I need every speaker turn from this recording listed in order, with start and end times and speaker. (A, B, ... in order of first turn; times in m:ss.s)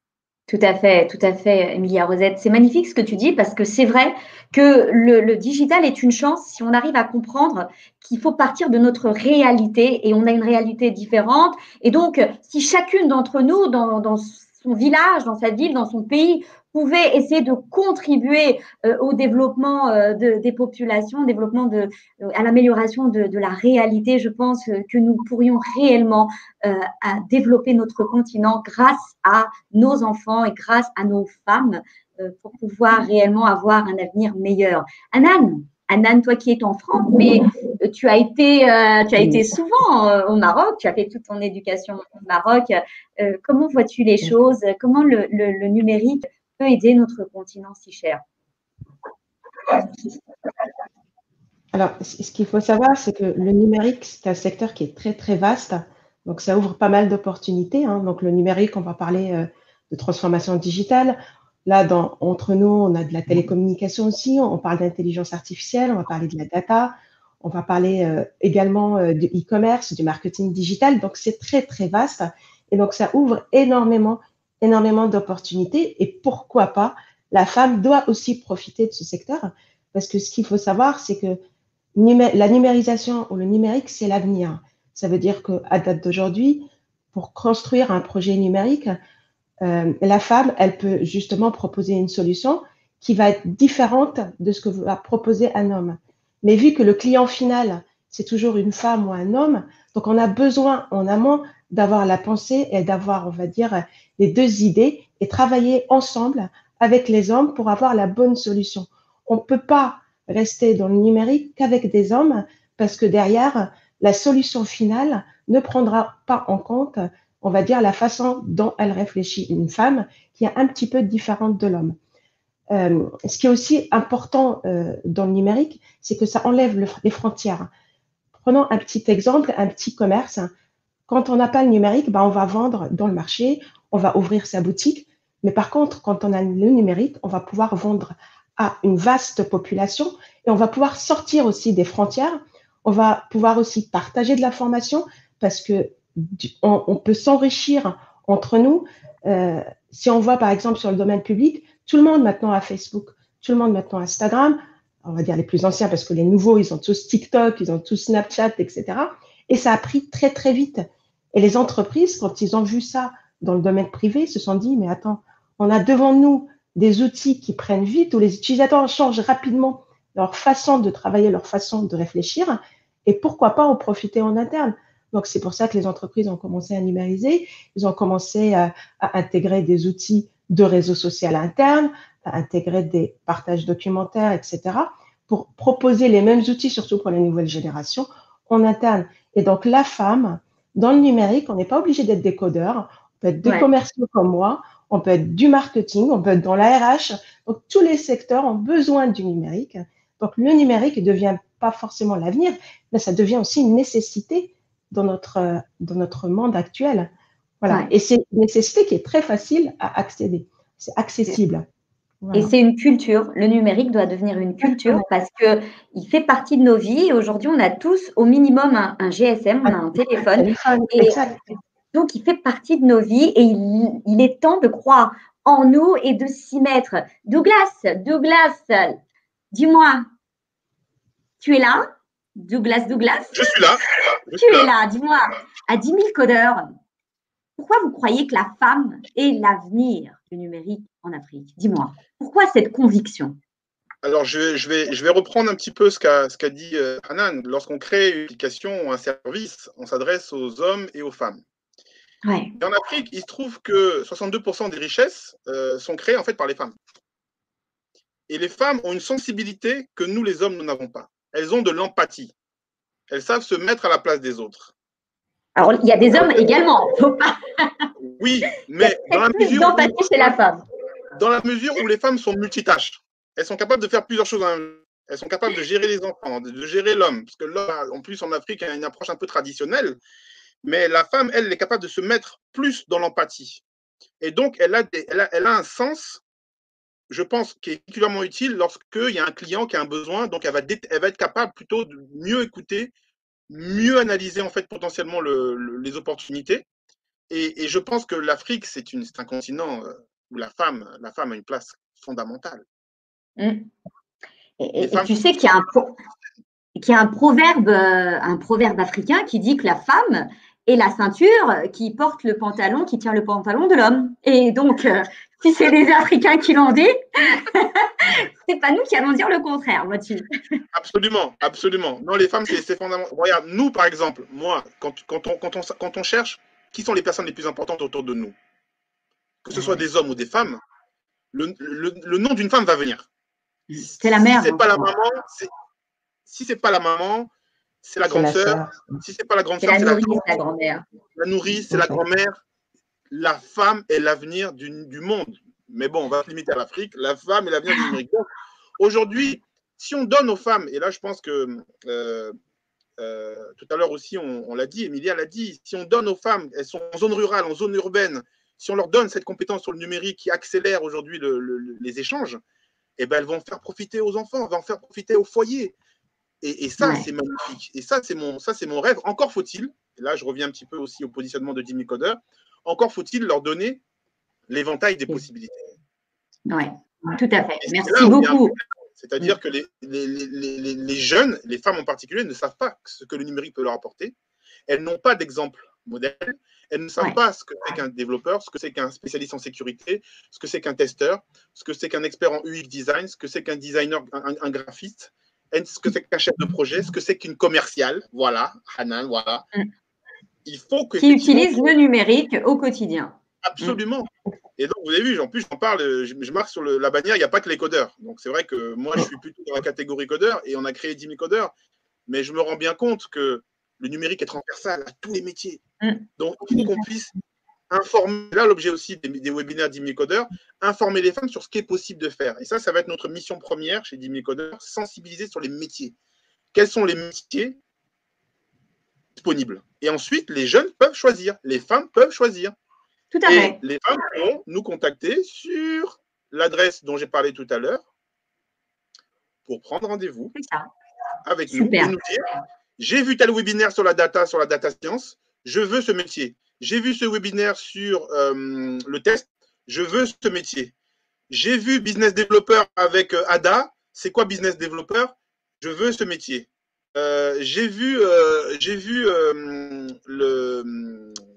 0:00.5-0:48.2 A
0:51.7-1:21.4 B
1:22.0-1:29.0 B
1:29.6-2:02.0 B
2:02.7-2:07.7 B
2:08.3-2:10.5 B
2:11.1-3:27.1 B
3:27.6-3:31.6 B
3:32.2-3:32.5 B
3:32.3-3:41.2 A
3:34.6-3:35.0 B
3:39.6-3:41.4 B
3:41.9-3:49.0 A
3:49.5-3:50.0 A
3:51.4-3:53.6 A
3:53.3-3:54.7 C
3:54.4-3:56.6 A
3:57.6-4:03.4 A
4:04.0-4:11.4 C
4:12.2-4:12.5 A
4:12.6-4:16.7 C
4:18.3-4:22.3 C
4:23.1-4:24.7 C
4:25.6-4:27.8 A
4:26.1-4:26.5 C
4:28.0-4:30.3 C
4:28.8-4:30.6 A
4:31.2-4:40.0 C
4:40.6-4:43.6 C
4:44.2-4:46.2 C
4:47.1-4:52.9 C
4:53.5-4:56.6 C
4:57.3-5:02.6 C
5:03.4-5:03.7 A
5:04.6-5:05.9 A
5:04.8-5:05.2 C
5:06.8-5:20.3 A
5:20.7-5:28.3 C
5:29.4-5:30.6 C
5:31.3-5:33.0 C
5:33.7-5:34.8 A
5:33.8-5:35.5 C
5:36.3-5:37.3 C
5:37.8-5:40.4 C
5:38.1-5:39.0 B
5:39.6-5:40.8 A
5:41.2-5:42.4 C
5:41.7-5:42.0 B
5:43.1-5:48.3 C
5:48.8-5:52.3 C
5:53.0-6:02.4 C
6:03.0-6:05.7 C
6:06.4-6:13.8 C
6:06.8-6:07.0 A
6:14.5-6:15.6 C
6:16.5-6:18.5 A
6:17.6-6:24.1 C
6:24.7-6:39.4 C
6:40.4-6:41.7 C
6:41.0-6:43.8 A
6:43.4-6:51.5 C
6:52.1-6:55.6 C
6:56.2-6:57.1 C
6:57.7-7:05.9 C
7:06.5-7:07.6 C
7:09.2-7:12.5 C
7:13.1-7:13.6 A
7:13.2-7:17.8 C
7:19.5-7:20.3 C
7:20.4-7:20.7 A
7:21.2-7:22.3 C
7:21.5-7:21.9 A
7:22.8-7:30.7 C
7:31.3-7:41.2 C